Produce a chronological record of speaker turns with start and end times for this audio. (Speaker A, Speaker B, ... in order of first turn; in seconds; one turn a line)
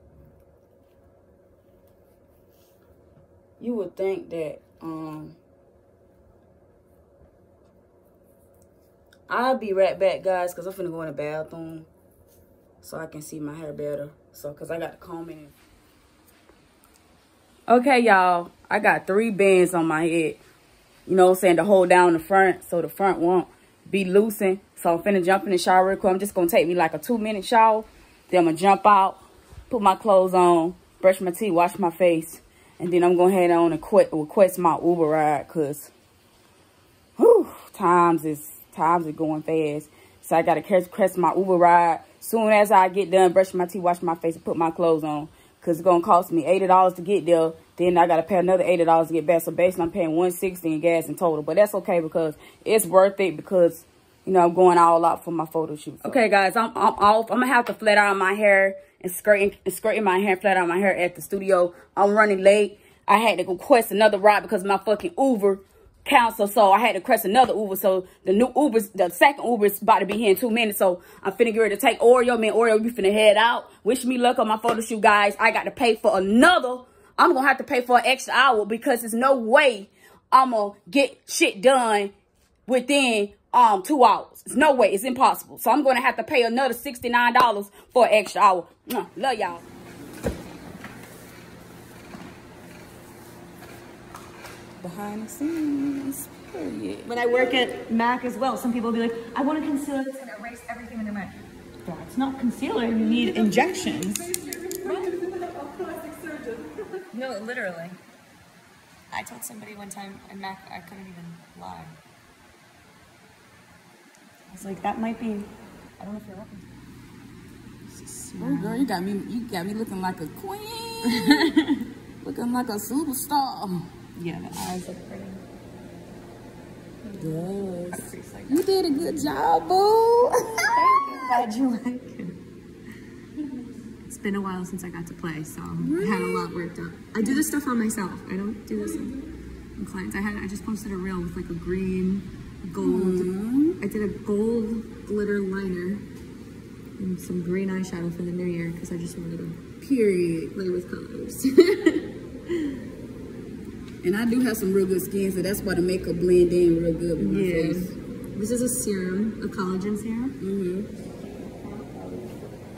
Speaker A: 3.6-5.4
Speaker A: 9.3-11.9
Speaker A: 12.8-15.6
Speaker A: 17.7-20.4
Speaker A: 21.1-35.9
Speaker A: 37.2-82.1
Speaker A: 82.7-89.6
Speaker A: 94.8-97.1
Speaker B: 97.1-104.3
Speaker B: 104.8-105.1
Speaker B: 107.1-108.0
Speaker B: 109.1-112.0
Speaker B: 114.5-116.6
Speaker B: 118.3-118.7
Speaker A: 118.4-121.6
Speaker B: 121.3-121.8
Speaker A: 122.2-124.0
Speaker B: 124.2-125.4
Speaker A: 127.2-131.2
Speaker B: 127.9-128.8
Speaker B: 130.8-132.4
Speaker B: 134.0-146.1
Speaker A: 135.8-136.5
Speaker A: 142.8-143.8
Speaker B: 147.0-149.6
Speaker A: 149.8-150.5
Speaker B: 150.5-152.1
Speaker A: 154.0-158.0
Speaker B: 157.2-160.4
Speaker A: 160.4-160.9